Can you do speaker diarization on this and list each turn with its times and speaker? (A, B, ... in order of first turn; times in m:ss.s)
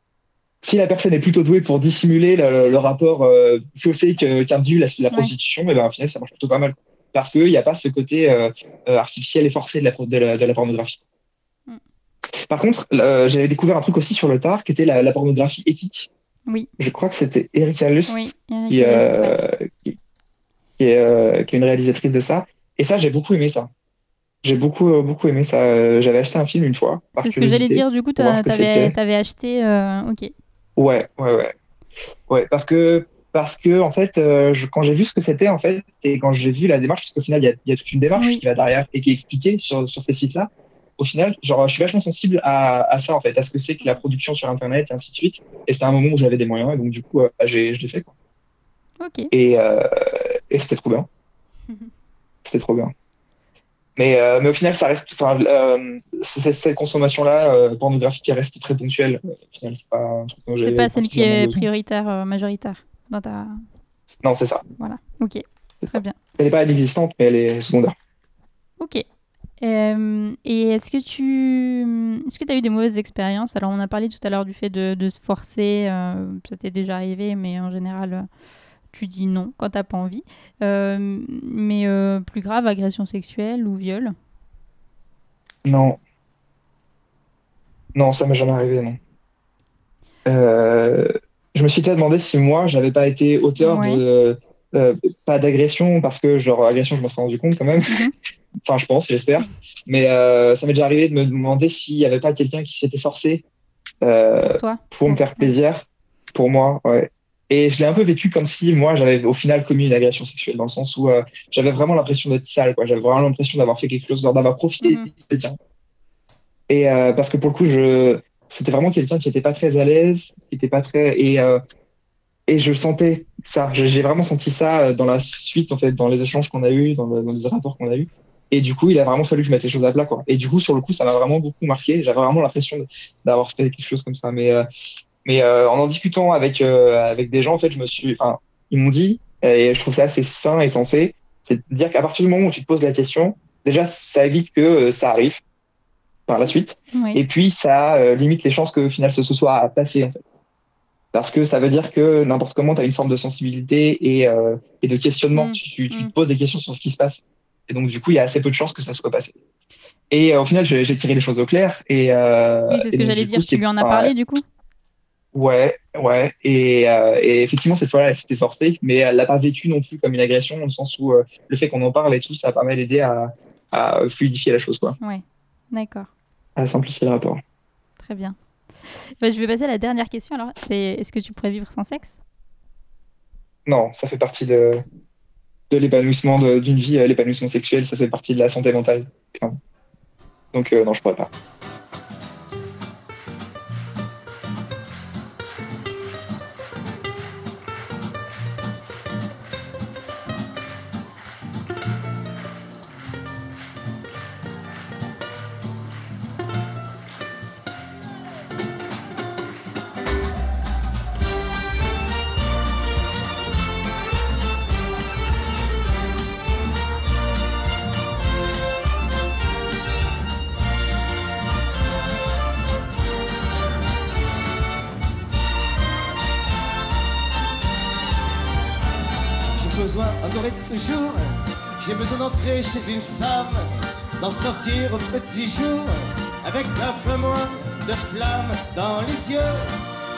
0:00.6-0:11.0 A
0:12.5-0:16.1 A
0:16.8-0:20.0 A
0:18.1-0:19.4 B
0:20.8-0:23.7 A
0:24.4-0:29.0 A
0:27.1-0:30.3 B
0:30.8-0:31.5 A
0:32.3-0:48.1 A
0:38.2-0:38.4 B
0:49.0-0:49.3 B
0:49.3-0:51.1 A
0:52.4-0:52.9 A
0:54.0-1:01.7 A
1:00.6-1:03.6 B
1:04.2-1:04.6 A
1:04.8-1:06.2 B
1:05.8-1:07.9 A
1:09.6-1:18.2 B
1:18.9-1:24.1 B
1:25.6-1:26.0 A
1:27.9-1:29.0 A
1:30.2-1:38.0 A
1:33.6-1:34.0 B
1:37.9-1:38.1 B
1:38.6-1:43.4 A
1:44.0-1:55.6 A
1:44.4-1:45.5 B
1:54.8-1:55.1 B
1:56.7-2:01.6 A
2:02.5-2:14.6 A
2:15.2-2:25.4 A
2:26.3-2:30.2 A
2:26.9-2:27.2 B
2:31.1-2:39.3 A
2:35.3-2:36.1 B
2:40.1-2:44.1 A
2:42.7-2:44.4 B
2:45.3-2:55.0 A
2:55.0-2:56.1 B
2:56.6-2:57.4 A
2:58.0-3:02.2 B
3:03.6-3:04.8 A
3:05.7-3:09.6 A
3:10.5-3:11.3 A
3:49.6-3:59.7 C